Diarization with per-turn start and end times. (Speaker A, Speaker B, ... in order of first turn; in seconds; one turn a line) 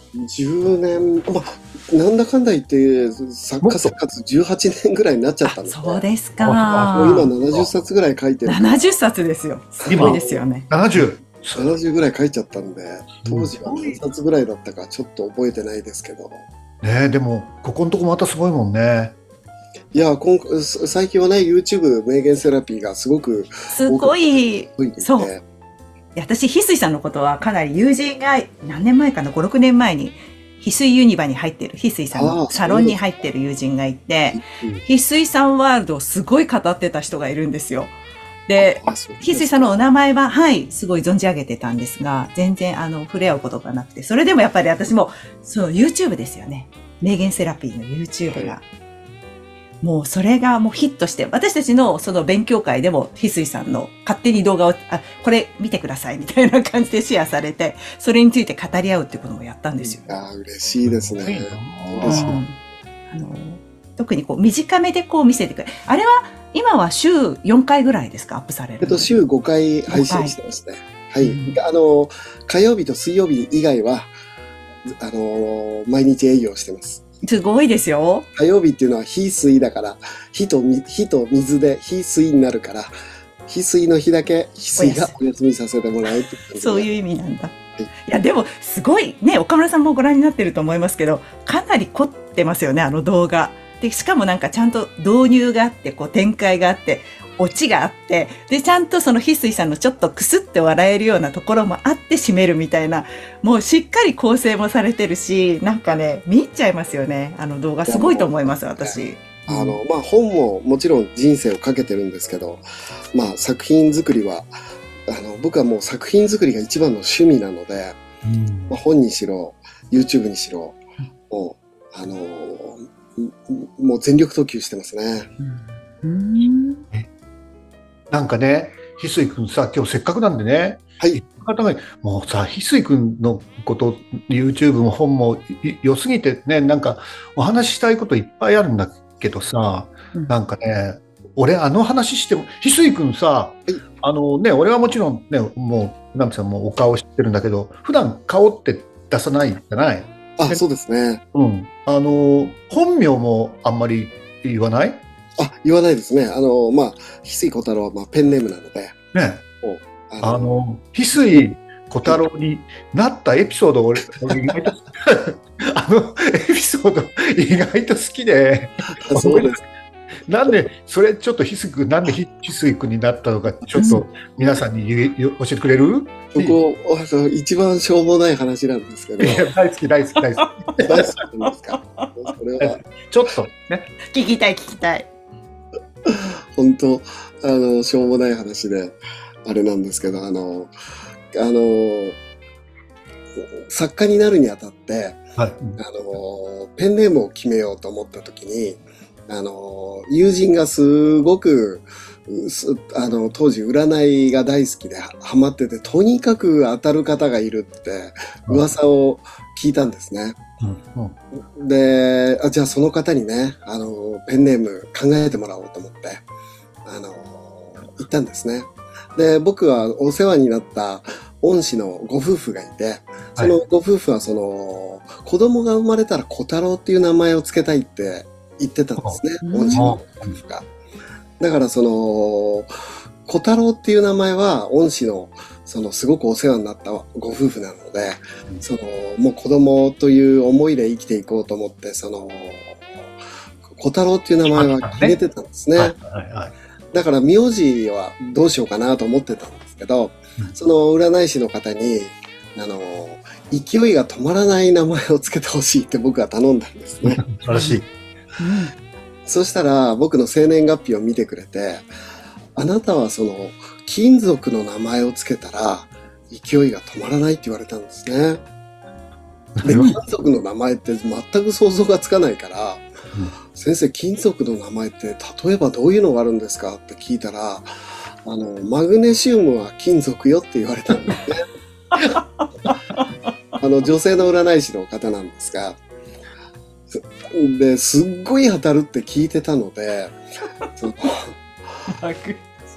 Speaker A: 0.1-6.0
Speaker B: 3.6-3.9
Speaker C: 5.5-7.3
Speaker B: 6.4-7.7
Speaker A: 7.0-8.9
Speaker C: 8.5-10.7
Speaker A: 9.8-10.4
Speaker B: 9.9-11.7
Speaker A: 11.6-16.4
Speaker B: 13.2-14.0
Speaker B: 16.8-19.2
Speaker A: 19.9-25.4
Speaker C: 23.7-25.3
Speaker C: 26.1-38.0
Speaker A: 32.1-33.0
Speaker C: 38.5-48.6
Speaker A: 38.6-39.8
Speaker A: 48.3-48.6
Speaker C: 49.8-60.1
Speaker A: 60.0-62.4
Speaker B: 60.8-62.4
Speaker C: 62.0-62.6
Speaker C: 63.1-69.1
Speaker A: 68.8-74.1
Speaker C: 69.9-70.3
Speaker C: 71.2-71.6
Speaker A: 74.8-77.1
Speaker C: 77.2-78.3
Speaker A: 78.4-82.9
Speaker A: 83.5-86.9
Speaker C: 84.8-85.2
Speaker C: 86.5-87.5
Speaker C: 88.1-109.8
Speaker A: 107.9-114.5
Speaker A: 115.1-118.0
Speaker B: 118.2-118.8
Speaker A: 118.7-120.8
Speaker A: 121.3-125.3
Speaker C: 125.4-126.8
Speaker B: 128.1-150.6
Speaker A: 150.4-151.2
Speaker B: 151.3-155.0
Speaker A: 155.4-159.0
Speaker B: 159.1-159.4
Speaker A: 159.6-160.5
Speaker B: 160.2-169.7
Speaker A: 169.0-169.6
Speaker B: 170.2-176.6
Speaker C: 173.8-174.0
Speaker A: 176.3-179.5
Speaker B: 179.2-181.1
Speaker A: 180.8-182.8
Speaker C: 181.7-182.1
Speaker B: 182.6-183.9
Speaker C: 184.1-185.1
Speaker A: 186.1-190.7
Speaker A: 191.3-192.2
Speaker A: 193.4-195.2
Speaker B: 195.4-195.8
Speaker A: 195.8-210.4
Speaker B: 210.6-211.2
Speaker A: 211.5-216.2
Speaker A: 216.8-230.7
Speaker C: 229.4-229.9
Speaker B: 229.7-230.4
Speaker A: 231.4-232.7
Speaker A: 233.3-242.9
Speaker A: 243.7-245.9
Speaker B: 244.4-245.2
Speaker B: 245.8-246.5
Speaker A: 246.9-257.2
Speaker B: 257.1-257.9
Speaker C: 257.5-257.8
Speaker C: 258.4-258.7
Speaker A: 259.3-261.9
Speaker A: 262.6-268.4
Speaker B: 269.6-270.0
Speaker A: 269.6-272.8
Speaker A: 273.5-277.7
Speaker A: 278.2-281.4
Speaker C: 281.9-283.3
Speaker A: 283.6-285.8
Speaker A: 286.9-290.2
Speaker A: 290.8-291.4
Speaker C: 291.9-292.5